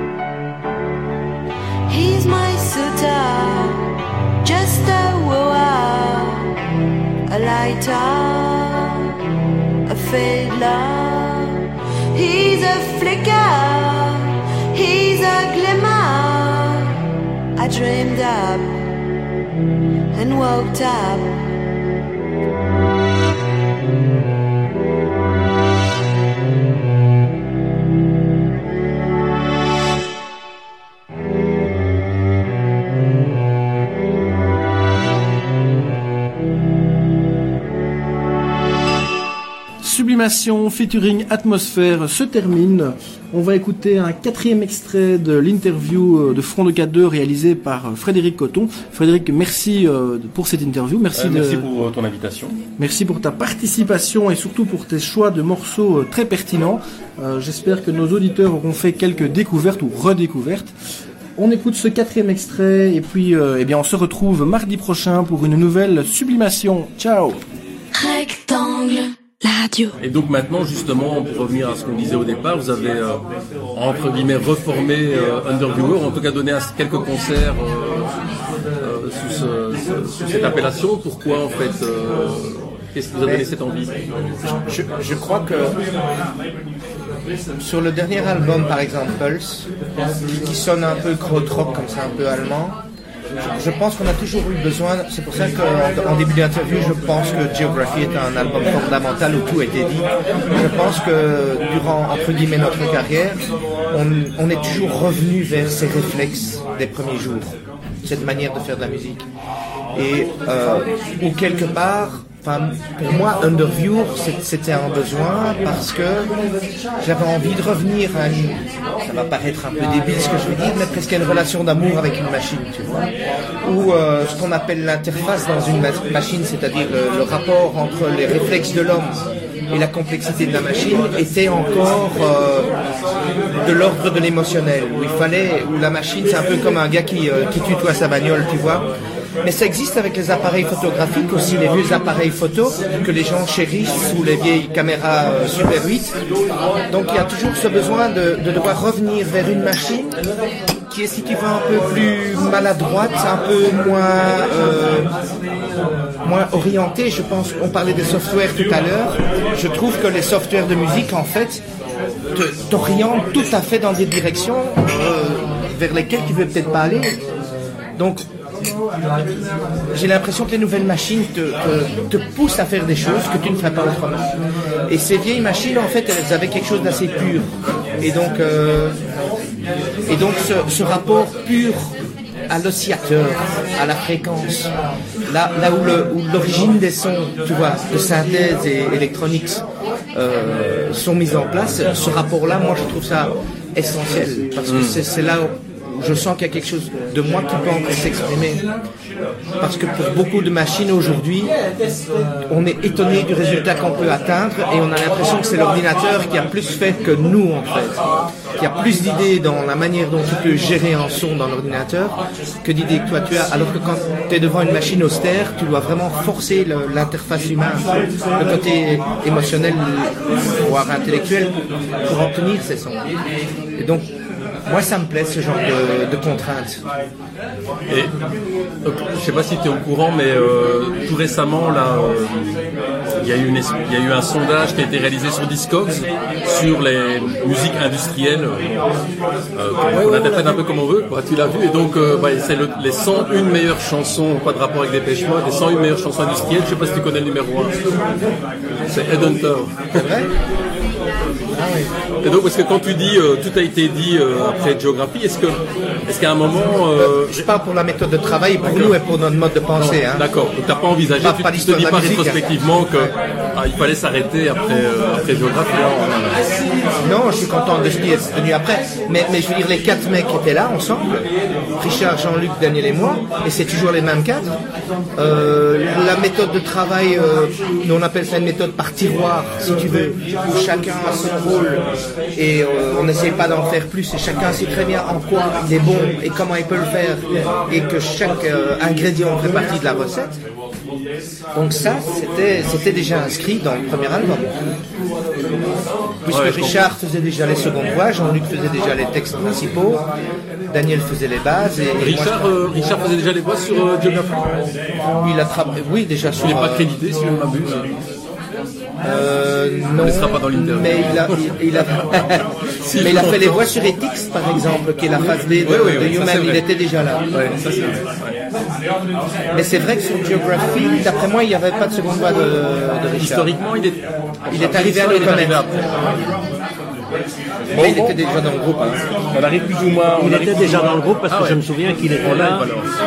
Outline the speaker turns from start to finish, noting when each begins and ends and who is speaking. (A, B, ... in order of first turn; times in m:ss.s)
0:01.9-0:03.8 A
0:04.4-0:06.5 A
0:07.3-0:09.0 A
0:09.9-0:11.6 A
0:12.2-0:16.9 A
0:17.6-0:18.7 A
0:20.2-0:21.4 A
0:39.8-0:51.7 B
0:51.1-0:52.5 C
0:52.8-1:00.7 B
1:01.4-1:07.4 B
1:07.9-1:09.9 A
1:10.0-1:13.2 C
1:13.8-1:18.0 C
1:18.8-1:23.9 C
1:24.5-1:25.7 D
1:27.6-1:29.7 D
1:30.3-1:32.8 D
1:33.4-1:43.4 D
1:43.9-1:47.5 D
1:48.0-1:49.2 D
1:49.9-1:56.3 D
1:57.0-2:02.9 D
2:03.6-2:09.2 D
2:09.7-2:12.7 D
2:13.6-2:18.9 D
2:19.4-2:26.1 D
2:26.9-2:30.1 D
2:30.9-2:35.1 D
2:36.2-2:41.6 D
2:42.3-2:47.2 D
2:48.0-2:48.2 D
2:49.9-2:54.3 D
2:54.9-2:57.5 D
2:58.0-2:59.0 D
3:00.1-3:01.9 D
3:02.5-3:04.7 D
3:05.3-3:09.6 D
3:10.1-3:18.6 D
3:14.6-3:15.0 C
3:19.6-3:21.5 D
3:22.5-3:28.0 D
3:28.6-3:43.0 D
3:43.8-3:44.1 D
3:44.6-3:46.8 D
3:48.8-3:52.6 C
3:53.2-3:58.7 C
3:59.6-4:07.7 C
3:59.9-4:00.6 E
4:08.9-4:10.0 C
4:10.0-4:10.3 D
4:11.5-4:11.9 D
4:12.2-4:17.4 C
4:17.0-4:20.2 D
4:18.6-4:19.0 C
4:19.8-4:26.4 C
4:21.2-4:22.4 D
4:27.0-4:31.2 D
4:31.8-4:34.5 D
4:35.2-4:41.8 D
4:42.4-4:50.4 D
4:51.5-4:54.5 D
4:56.2-5:00.0 D
4:56.3-4:56.8 C
5:00.7-5:02.5 D
5:02.0-5:04.5 C
5:05.2-5:06.8 D
5:06.3-5:07.9 C
5:09.0-5:12.4 D
5:10.0-5:11.5 C
5:12.8-5:13.8 C
5:13.0-5:17.2 D
5:15.1-5:16.6 C
5:17.3-5:18.3 C
5:19.5-5:23.6 D
5:23.2-5:26.2 C
5:24.5-5:25.6 D
5:27.7-5:29.0 D
5:27.7-5:28.2 C
5:29.3-5:31.6 C
5:30.2-5:32.7 E
5:32.2-5:32.9 C